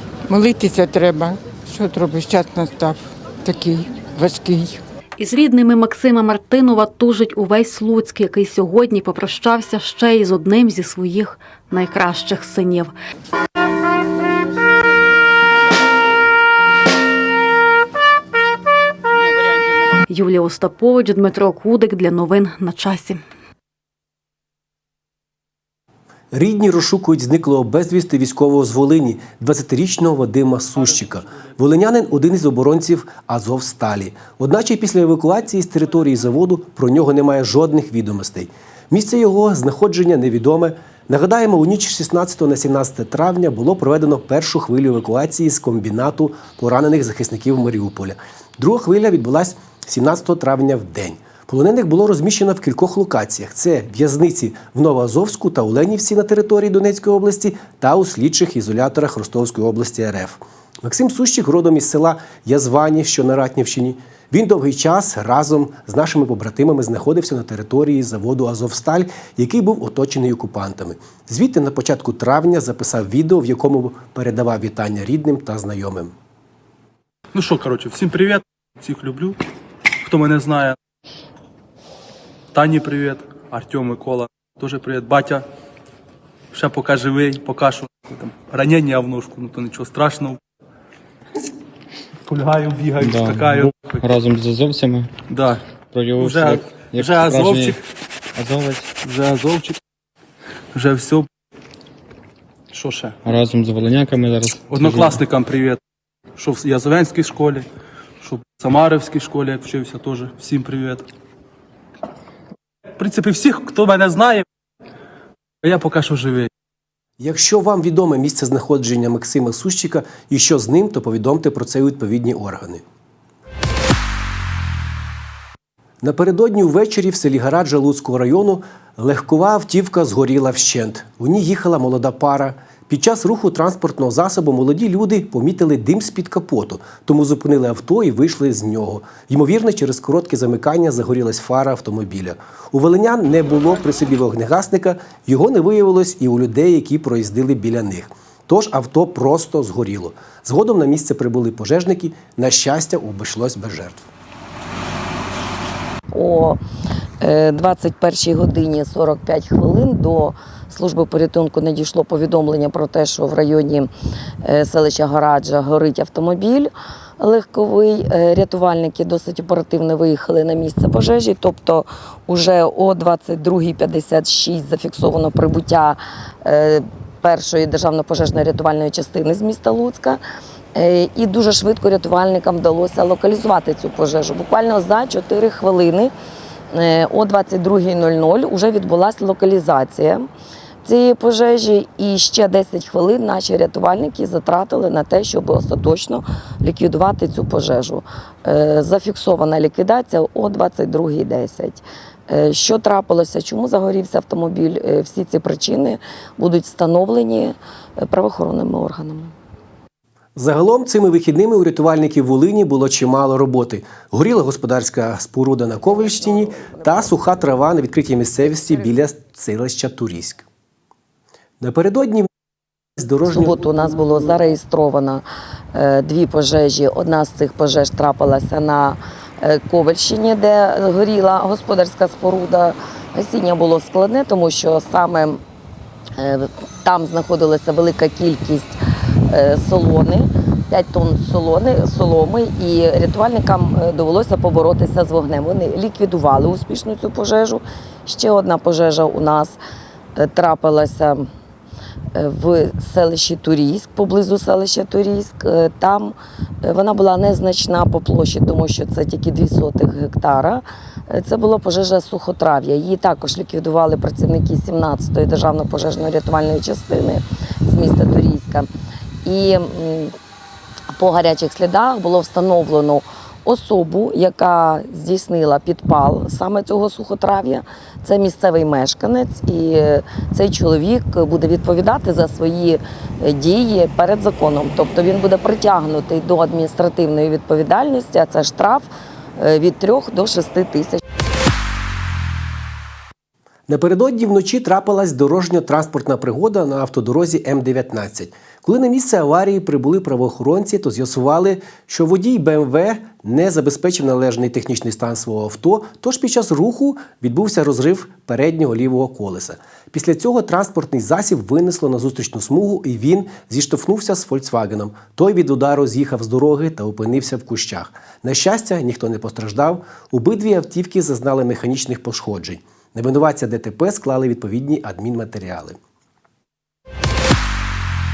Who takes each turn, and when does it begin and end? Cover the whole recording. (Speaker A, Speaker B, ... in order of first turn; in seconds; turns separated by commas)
Speaker A: 0.3-4.8, Speaker B: 5.2-12.9, Speaker B: 20.1-23.2, Speaker C: 26.3-76.1, Speaker D: 77.3-79.4, Speaker D: 80.0-80.8, Speaker D: 82.5-85.5, Speaker D: 86.5-90.4, Speaker D: 92.3-94.0, Speaker E: 93.0-95.1, Speaker D: 95.3-95.6, Speaker E: 95.9-97.8, Speaker D: 96.2-97.8, Speaker E: 98.4-98.9, Speaker D: 99.0-99.8, Speaker D: 100.7-101.3, Speaker D: 102.7-103.2, Speaker E: 103.2-105.2, Speaker D: 104.7-105.8, Speaker D: 106.4-107.7, Speaker D: 108.2-111.0, Speaker D: 113.0-114.5, Speaker D: 115.6-116.5, Speaker C: 117.2-122.8, Speaker C: 126.0-154.1, Speaker F: 156.1-156.6, Speaker F: 157.2-163.9, Speaker F: 164.4-180.2, Speaker F: 180.8-186.1, Speaker F: 186.7-190.3, Speaker F: 190.8-209.3, Speaker C: 210.4-220.5, Speaker F: 215.9-217.5, Speaker F: 218.5-218.9, Speaker C: 221.6-222.3, Speaker C: 223.0-223.9, Speaker F: 223.2-235.4, Speaker F: 236.2-238.8, Speaker F: 239.3-249.6, Speaker F: 250.2-251.3, Speaker F: 252.2-268.7, Speaker F: 269.2-270.1, Speaker F: 270.9-291.0, Speaker C: 293.7-325.8